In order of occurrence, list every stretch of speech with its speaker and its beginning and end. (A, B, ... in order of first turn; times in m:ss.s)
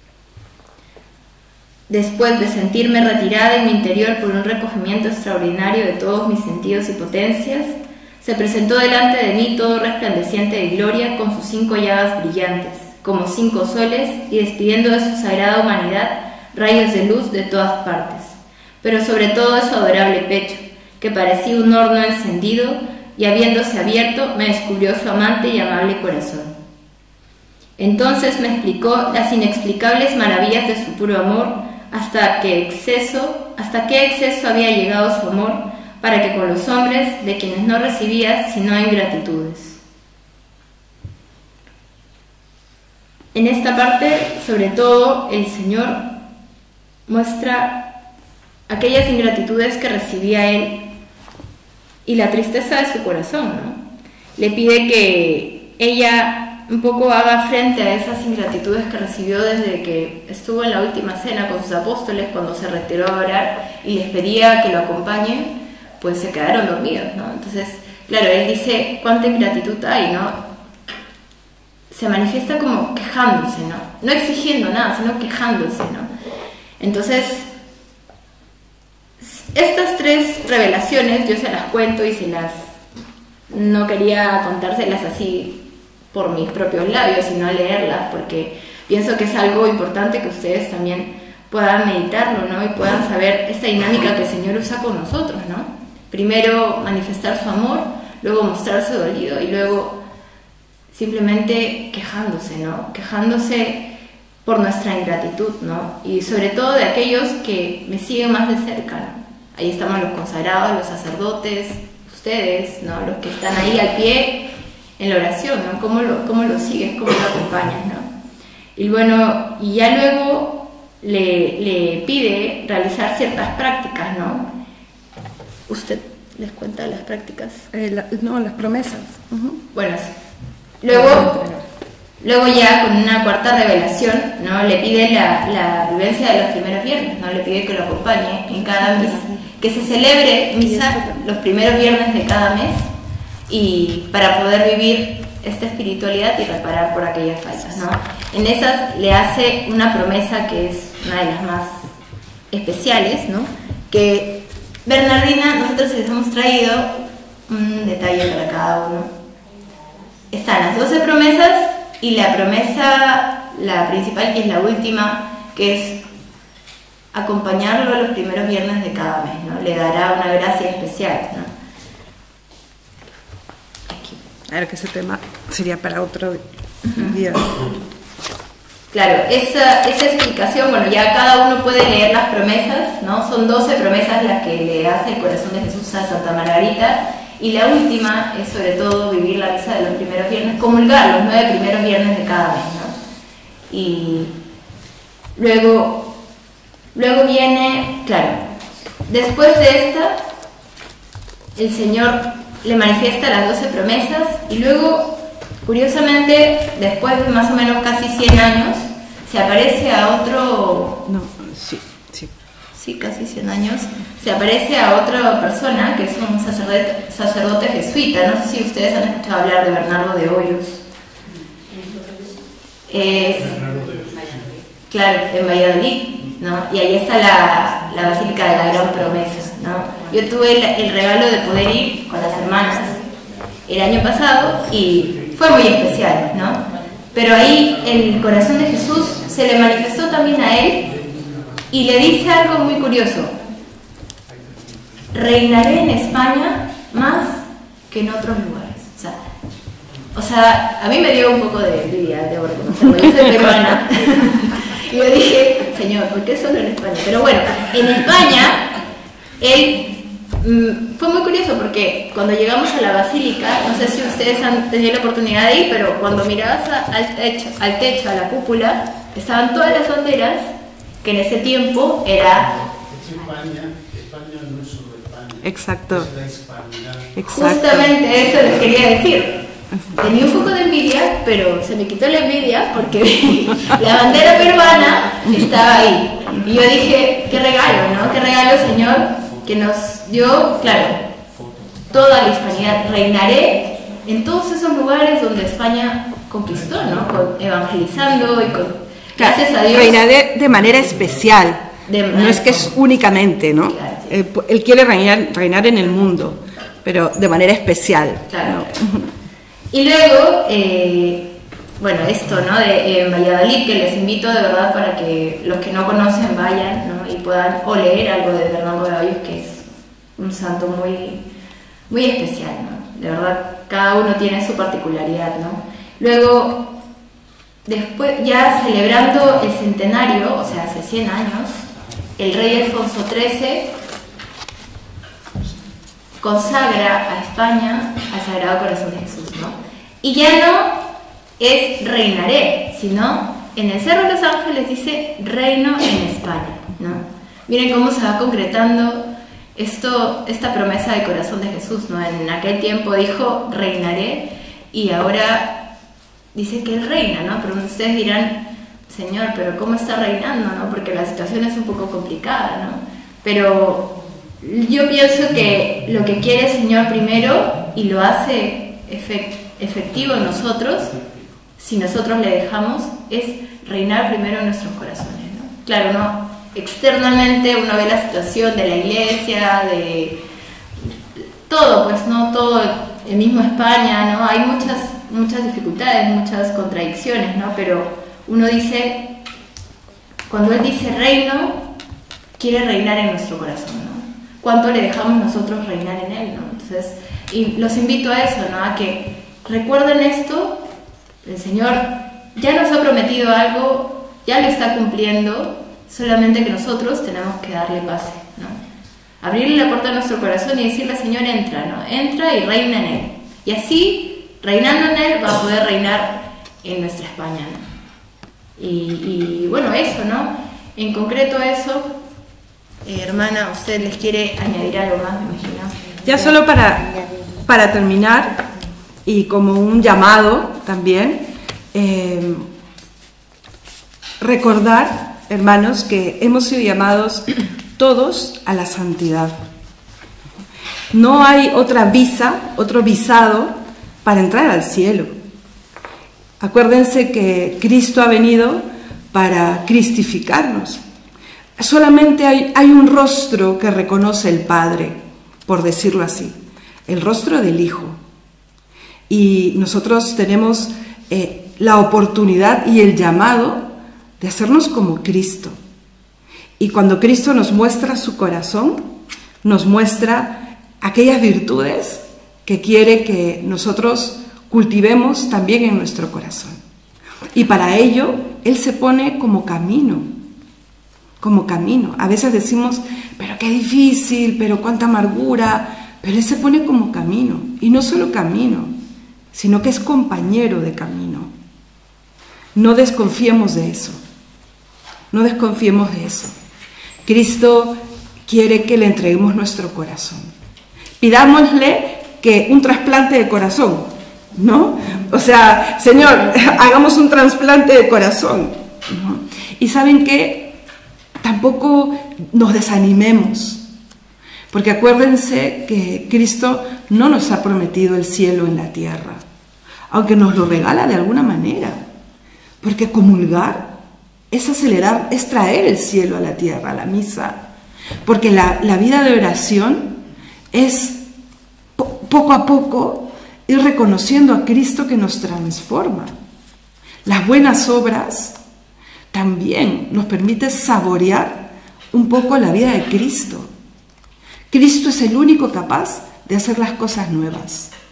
0:01.9-0:26.6 A
0:27.8-0:39.8 A
0:43.3-0:46.0 A
0:47.1-0:47.9 A
0:48.7-0:50.9 A
0:52.0-0:53.8 A
0:54.4-1:10.5 A
1:11.9-1:16.1 A
1:16.8-1:17.5 A
1:19.2-1:22.8 A
1:23.5-1:40.0 A
1:40.9-1:43.9 A
1:44.4-1:58.1 A
1:58.8-2:04.5 A
2:05.7-2:07.7 A
2:07.7-2:09.6 B
2:09.7-2:10.1 A
2:10.8-2:11.4 A
2:10.9-2:11.6 B
2:12.2-2:22.9 A
2:18.6-2:19.4 B
2:20.6-2:21.4 B
2:23.5-2:31.9 A
2:32.5-2:39.1 A
2:40.3-2:46.0 A
2:47.1-2:51.5 A
2:53.9-2:54.2 A
2:54.5-2:57.6 B
2:56.9-2:57.2 A
2:58.9-3:13.0 A
3:13.7-3:14.3 A
3:15.4-3:16.2 A
3:17.0-3:18.4 A
3:19.1-3:20.2 A
3:21.6-3:31.0 A
3:31.1-3:32.3 B
3:32.8-3:40.8 A
3:42.9-3:43.6 A
3:43.4-3:44.6 C
3:44.9-3:53.0 A
3:53.2-3:53.6 C
3:53.7-4:00.9 A
3:54.5-3:56.6 C
3:57.2-4:03.0 C
4:01.7-4:03.4 A
4:04.3-4:05.4 C
4:05.1-4:09.2 A
4:10.1-4:18.7 A
4:11.8-4:12.4 C
4:12.9-4:13.6 B
4:19.4-4:19.9 A
4:20.4-4:30.4 A
4:31.0-4:32.5 A
4:32.4-4:39.4 C
4:35.4-4:36.1 B
4:37.2-4:38.0 B
4:37.3-4:39.4 A
4:39.7-4:40.0 B
4:40.0-4:51.0 A
4:43.6-4:44.6 C
4:45.2-4:45.6 B
4:46.3-4:46.7 C
4:47.6-4:49.6 C
4:51.2-4:52.8 C
4:51.9-5:00.0 A
4:56.5-4:57.4 C
4:57.9-4:58.7 C
4:59.2-5:09.1 B
5:00.5-5:01.4 C
5:01.9-5:02.6 A
5:03.6-5:04.2 A
5:08.3-5:08.6 A
5:09.7-5:21.2 A
5:21.9-5:26.8 A
5:27.7-5:31.6 A
5:32.2-5:33.7 A
5:36.2-5:40.8 A
5:41.4-5:55.7 A
5:56.3-6:11.0 A
6:11.6-6:20.2 A
6:21.5-6:29.1 A
6:30.3-6:31.7 A
6:32.4-6:40.7 A
6:41.2-6:48.6 A
6:49.2-6:57.6 A
6:58.6-7:02.0 A
7:02.8-7:05.9 A
7:06.0-7:08.4 B
7:09.0-7:12.5 B
7:14.2-7:19.4 B
7:20.9-7:25.2 B
7:26.4-7:30.8 B
7:31.6-7:38.0 B
7:39.1-7:45.6 B
7:46.6-7:48.8 B
7:49.4-7:56.6 B
7:57.3-8:00.1 B
8:01.2-8:08.8 B
8:09.3-8:11.3 B
8:12.6-8:14.0 B
8:15.1-8:16.3 B
8:17.0-8:20.3 B
8:21.0-8:30.6 B
8:31.2-8:33.6 B
8:34.5-8:39.2 B
8:39.9-8:41.8 B
8:42.6-8:43.8 B
8:44.3-8:47.4 B
8:48.0-8:50.0 B
8:50.5-8:51.0 B
8:51.8-8:56.1 B
8:57.0-8:58.4 B
8:59.1-9:03.5 B
9:04.5-9:07.7 B